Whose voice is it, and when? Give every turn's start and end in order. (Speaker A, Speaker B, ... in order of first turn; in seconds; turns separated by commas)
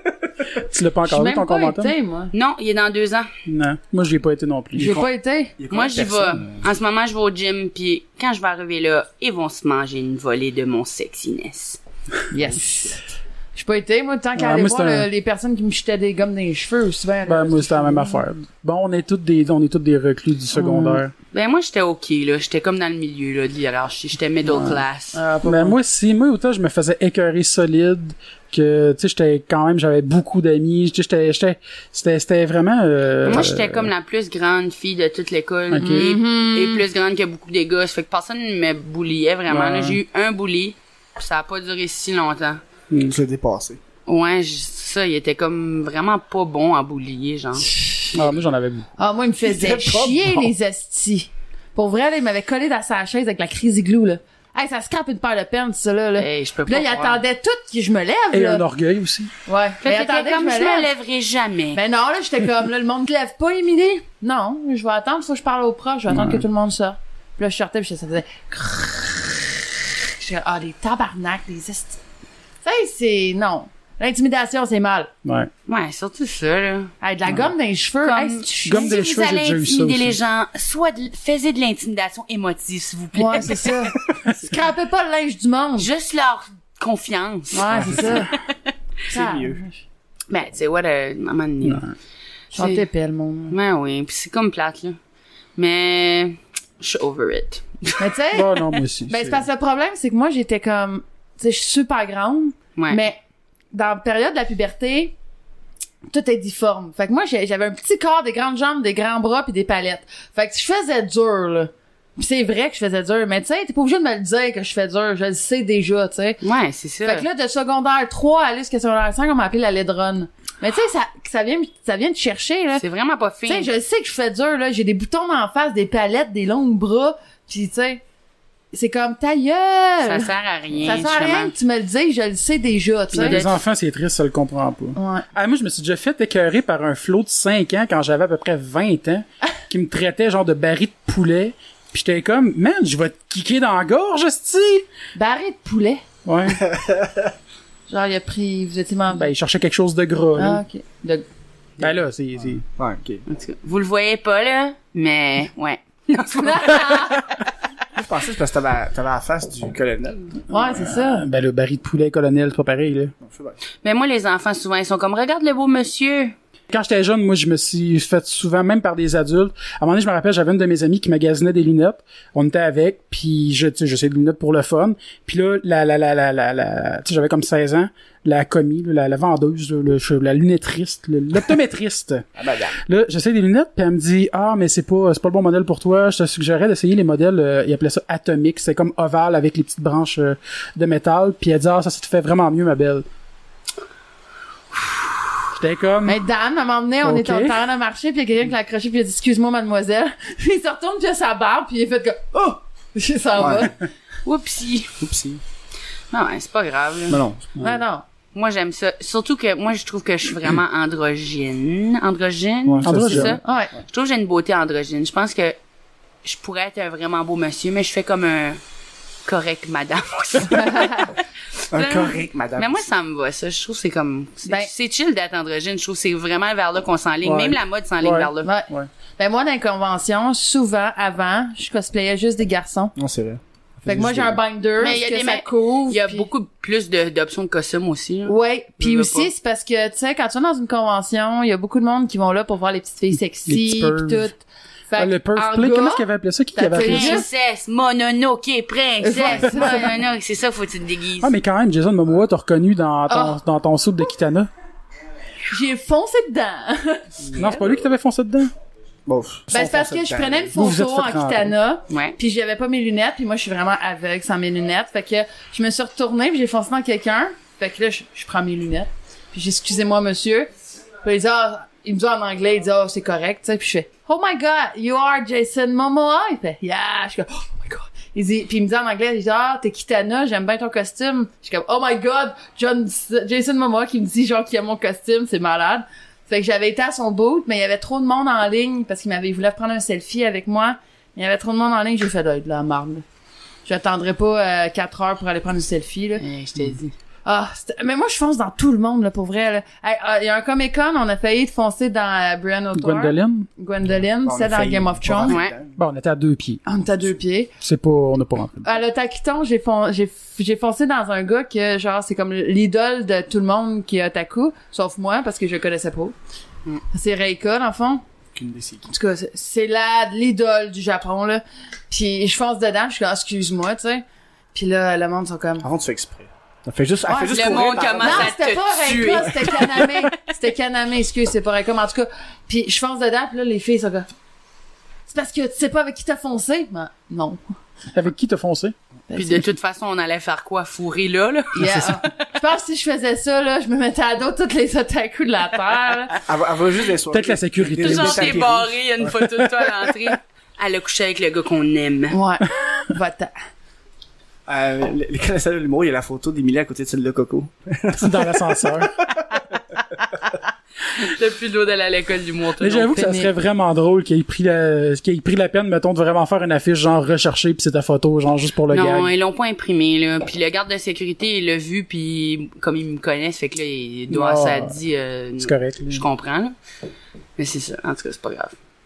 Speaker A: 0.6-1.9, Speaker B: 1.1-2.3, Speaker C: 2.3-3.3, Speaker A: 3.5-5.0, Speaker B: 4.8-5.6, Speaker D: 5.6-6.7, Speaker C: 5.7-11.8, Speaker B: 12.3-13.0, Speaker B: 13.6-18.2, Speaker A: 14.4-15.1, Speaker A: 17.3-21.1, Speaker B: 20.6-21.0, Speaker C: 21.3-25.2, Speaker A: 24.5-24.8, Speaker B: 25.1-25.8, Speaker A: 25.4-33.9, Speaker C: 33.2-42.6, Speaker A: 35.7-36.1, Speaker B: 35.8-36.9, Speaker A: 39.5-40.0, Speaker A: 42.9-43.2, Speaker D: 43.1-43.8, Speaker C: 44.1-47.7, Speaker B: 47.7-48.1, Speaker A: 48.1-48.9, Speaker B: 49.0-58.6, Speaker D: 49.4-50.5, Speaker C: 56.2-57.2, Speaker A: 58.3-59.3, Speaker B: 59.5-60.9, Speaker C: 59.8-61.8, Speaker B: 61.7-72.0, Speaker A: 66.1-66.5, Speaker B: 72.6-75.1, Speaker A: 75.2-75.5, Speaker C: 75.7-76.9, Speaker B: 77.0-79.0, Speaker C: 78.0-83.9, Speaker A: 78.7-80.2, Speaker B: 83.2-85.9, Speaker C: 85.8-88.2, Speaker B: 87.5-88.3, Speaker D: 87.7-88.1, Speaker D: 89.1-89.6, Speaker B: 89.1-89.8, Speaker C: 90.3-91.9, Speaker A: 91.6-91.9, Speaker B: 92.5-93.6, Speaker C: 92.5-92.9, Speaker C: 93.5-95.0, Speaker C: 95.6-98.2, Speaker B: 98.0-98.5, Speaker A: 98.3-99.5, Speaker B: 99.1-103.2, Speaker C: 102.8-103.0, Speaker B: 103.7-105.1, Speaker B: 106.1-116.4, Speaker C: 116.4-117.3, Speaker B: 117.0-122.8, Speaker C: 122.7-123.7, Speaker B: 123.5-128.0, Speaker B: 128.7-133.4, Speaker C: 130.0-131.6, Speaker C: 133.1-133.6, Speaker A: 133.2-144.9, Speaker B: 135.0-135.3, Speaker B: 145.2-146.0, Speaker A: 146.2-146.6, Speaker D: 146.5-147.3, Speaker B: 147.9-149.3, Speaker A: 149.1-150.6, Speaker B: 150.4-151.3, Speaker A: 151.8-152.6, Speaker D: 152.6-153.2, Speaker C: 153.3-157.2, Speaker B: 156.4-157.2, Speaker D: 157.9-160.4, Speaker B: 160.5-161.3, Speaker A: 160.7-163.1, Speaker D: 163.2-163.6, Speaker C: 163.8-166.3, Speaker A: 166.7-182.3, Speaker D: 182.4-182.8, Speaker A: 182.8-193.1, Speaker C: 194.7-195.2, Speaker A: 195.5-196.2, Speaker B: 196.1-203.8, Speaker A: 197.0-197.6, Speaker D: 203.4-203.7, Speaker C: 204.2-204.9, Speaker D: 205.0-205.4, Speaker C: 206.1-207.2, Speaker D: 207.1-207.7, Speaker B: 207.6-208.0, Speaker C: 208.3-215.6, Speaker D: 212.7-213.4, Speaker A: 212.8-213.4, Speaker B: 213.4-213.7, Speaker C: 216.2-218.6, Speaker C: 219.2-228.5, Speaker B: 220.5-221.1, Speaker D: 221.7-222.8, Speaker B: 224.5-224.7, Speaker A: 227.2-228.9, Speaker B: 228.4-232.9, Speaker D: 232.9-234.4, Speaker B: 233.9-236.3, Speaker C: 234.8-239.3, Speaker B: 238.3-246.1, Speaker A: 243.5-244.3, Speaker A: 245.0-247.2, Speaker B: 246.6-247.3, Speaker C: 246.8-251.3, Speaker B: 249.0-250.0, Speaker A: 251.2-254.5, Speaker B: 253.1-253.4, Speaker B: 255.5-257.7, Speaker A: 257.3-258.5, Speaker D: 259.1-260.5, Speaker B: 259.5-293.0, Speaker A: 260.5-261.6, Speaker C: 261.9-262.2, Speaker B: 293.6-296.2, Speaker C: 296.2-296.9, Speaker B: 297.2-305.4, Speaker A: 302.8-303.5, Speaker D: 304.2-305.8, Speaker C: 305.3-305.5, Speaker A: 305.8-306.6, Speaker B: 306.7-307.5, Speaker A: 307.6-308.8, Speaker B: 308.6-316.1, Speaker B: 316.9-318.0, Speaker D: 318.4-318.9, Speaker B: 318.9-325.7, Speaker D: 325.6-328.4, Speaker B: 327.1-334.1, Speaker C: 327.3-330.1, Speaker B: 335.1-337.5, Speaker A: 337.9-338.7, Speaker B: 339.1-339.5, Speaker C: 339.1-341.9, Speaker B: 341.6-346.1, Speaker A: 341.6-342.0, Speaker D: 346.2-349.3, Speaker A: 347.1-348.5, Speaker C: 347.8-352.2, Speaker B: 352.1-353.3, Speaker D: 354.5-359.2, Speaker A: 358.0-359.0, Speaker C: 360.9-363.0, Speaker A: 362.6-369.1, Speaker B: 362.9-363.3, Speaker C: 368.7-376.5, Speaker A: 374.1-374.8, Speaker A: 375.4-376.0, Speaker C: 377.4-378.5